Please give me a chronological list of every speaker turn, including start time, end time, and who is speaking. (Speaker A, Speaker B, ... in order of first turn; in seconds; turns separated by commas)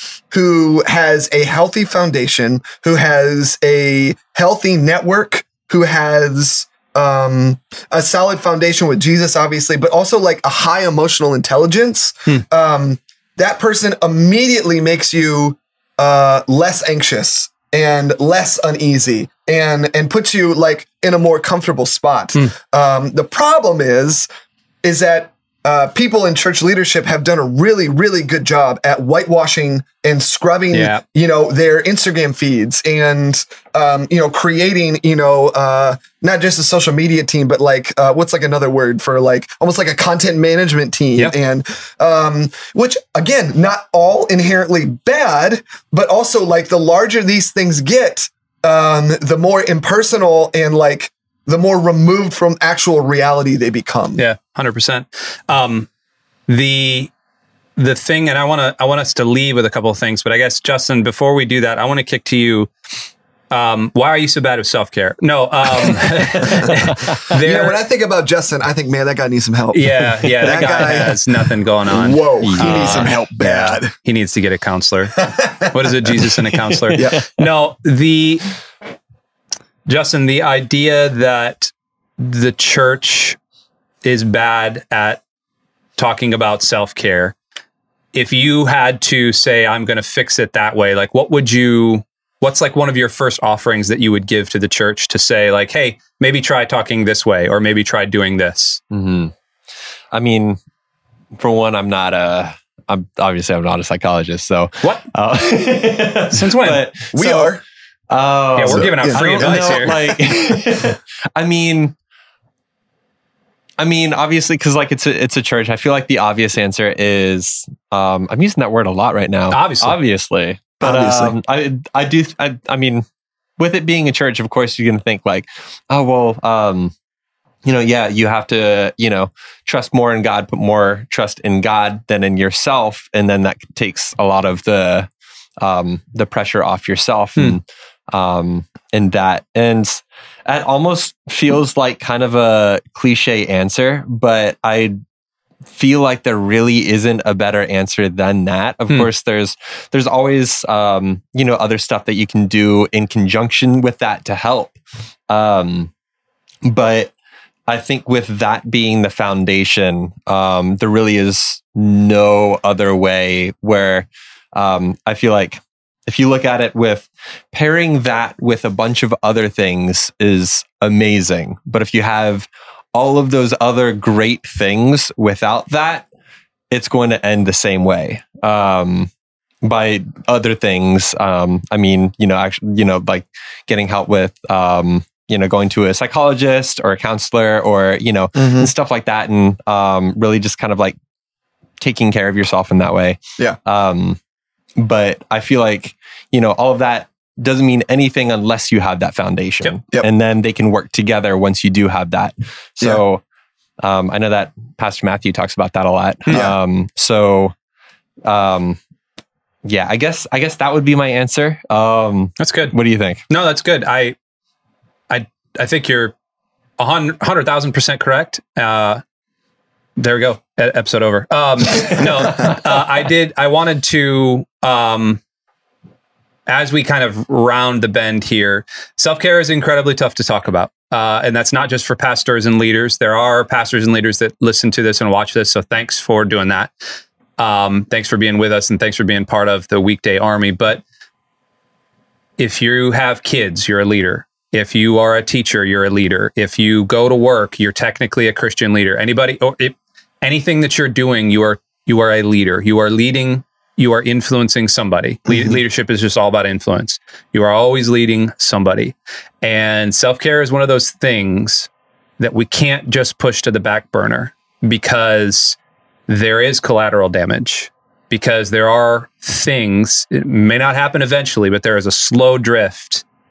Speaker A: 0.3-24.2, Speaker A: 24.8-54.2, Speaker B: 30.7-31.0, Speaker B: 54.2-55.9, Speaker B: 56.5-57.1, Speaker B: 57.8-62.7, Speaker B: 63.5-67.8, Speaker A: 66.4-66.7, Speaker A: 67.3-73.9, Speaker B: 69.7-78.5, Speaker C: 72.4-73.1, Speaker A: 75.2-75.7, Speaker C: 76.7-77.3, Speaker B: 79.8-83.4, Speaker B: 84.0-85.2, Speaker B: 86.0-87.3, Speaker B: 88.1-98.8, Speaker C: 98.9-99.3, Speaker C: 100.1-100.6, Speaker C: 101.4-107.5, Speaker B: 106.3-106.8, Speaker A: 107.1-107.6, Speaker C: 108.1-111.9, Speaker B: 108.6-110.2, Speaker A: 108.7-109.8, Speaker C: 113.8-123.0, Speaker B: 119.5-120.0, Speaker A: 120.8-121.3, Speaker C: 123.6-126.9, Speaker C: 127.6-145.0, Speaker C: 145.7-154.8, Speaker C: 155.3-155.9, Speaker C: 156.6-157.1, Speaker C: 157.7-176.1, Speaker C: 176.7-179.1, Speaker C: 179.6-190.9, Speaker A: 188.3-188.7, Speaker C: 191.8-194.2, Speaker C: 194.8-203.2, Speaker C: 203.8-207.5, Speaker B: 206.3-206.5, Speaker C: 208.2-208.8, Speaker C: 209.7-213.2, Speaker B: 212.4-212.7, Speaker B: 213.3-214.2, Speaker B: 215.1-216.1, Speaker B: 216.8-219.0, Speaker B: 220.0-225.2, Speaker B: 226.5-236.7, Speaker B: 237.4-240.8, Speaker B: 242.4-265.6, Speaker A: 255.3-255.6, Speaker B: 266.1-273.0